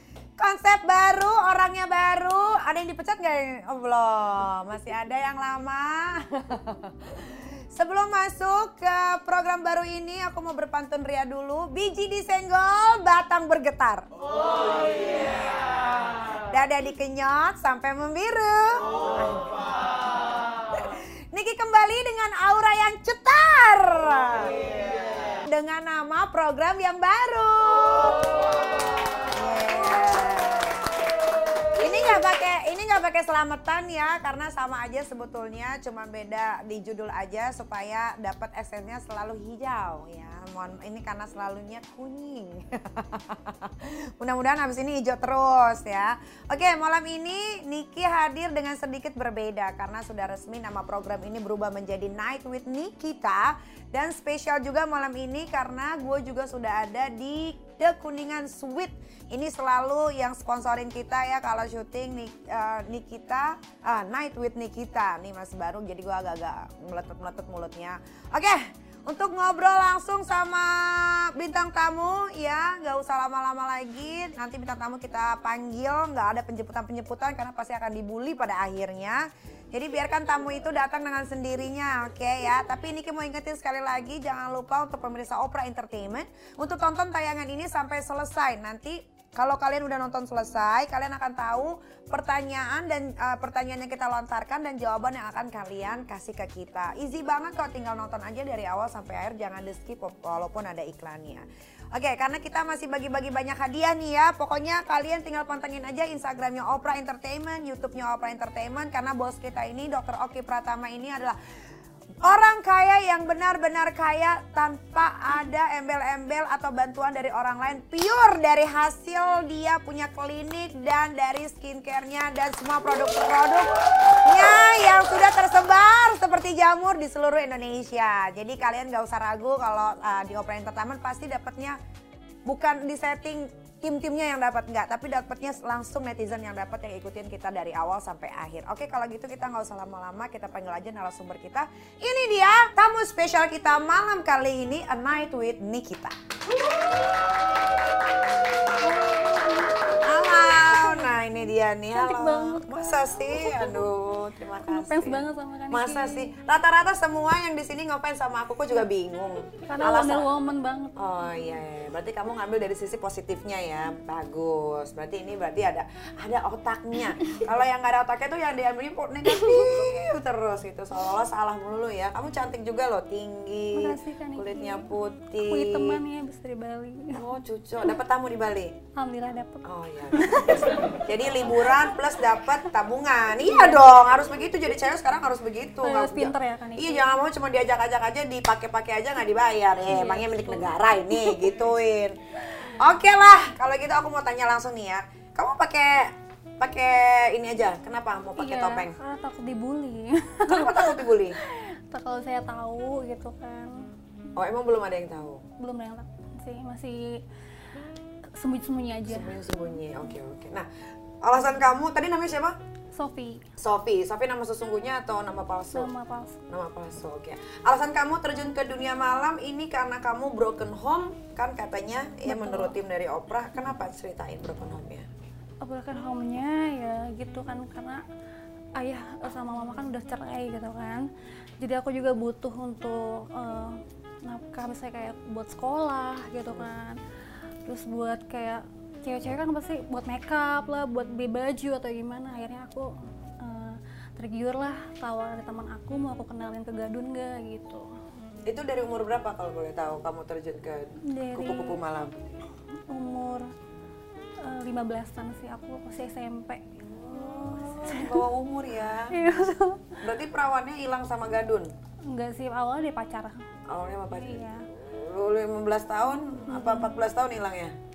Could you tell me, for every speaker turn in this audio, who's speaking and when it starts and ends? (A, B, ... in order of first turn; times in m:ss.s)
0:00.4-0:14.1 A
0:16.1-0:19.6 A
0:20.7-0:24.8 A
0:25.4-0:28.5 A
0:29.2-0:31.1 A
0:31.7-1:51.4 A
1:52.2-2:11.8 A
2:12.4-2:26.2 A
2:28.8-2:31.1 B
2:30.0-2:40.3 A
2:31.9-2:33.9 B
2:34.6-2:36.3 B
2:39.6-2:41.0 B
2:41.0-2:56.0 A
2:53.7-2:57.2 B
2:57.1-2:58.8 A
2:58.9-3:01.0 B
2:59.6-3:19.0 A
3:01.6-3:01.9 B
3:03.4-3:03.9 B
3:05.8-3:07.1 B
3:09.8-3:11.4 B
3:18.4-3:23.9 B
3:20.4-3:21.4 A
3:24.4-3:25.4 A
3:25.6-3:27.2 B
3:28.3-3:29.5 B
3:29.1-3:30.7 A
3:31.2-3:32.6 A
3:32.9-3:33.5 B
3:33.6-3:35.9 A
3:35.7-3:36.4 B
3:36.5-3:45.1 A
3:42.2-3:42.8 B
3:45.6-3:48.0 B
3:48.8-3:51.1 B
3:51.6-3:57.0 B
3:57.6-4:07.8 B
4:08.5-4:12.2 A
4:11.0-4:11.8 B
4:12.9-4:13.5 B
4:14.4-4:18.2 B
4:16.9-4:19.2 A
4:19.1-4:20.0 B
4:20.0-4:21.7 A
4:22.1-4:23.5 B
4:23.7-4:27.7 A
4:24.2-4:24.7 B
4:26.5-4:26.9 B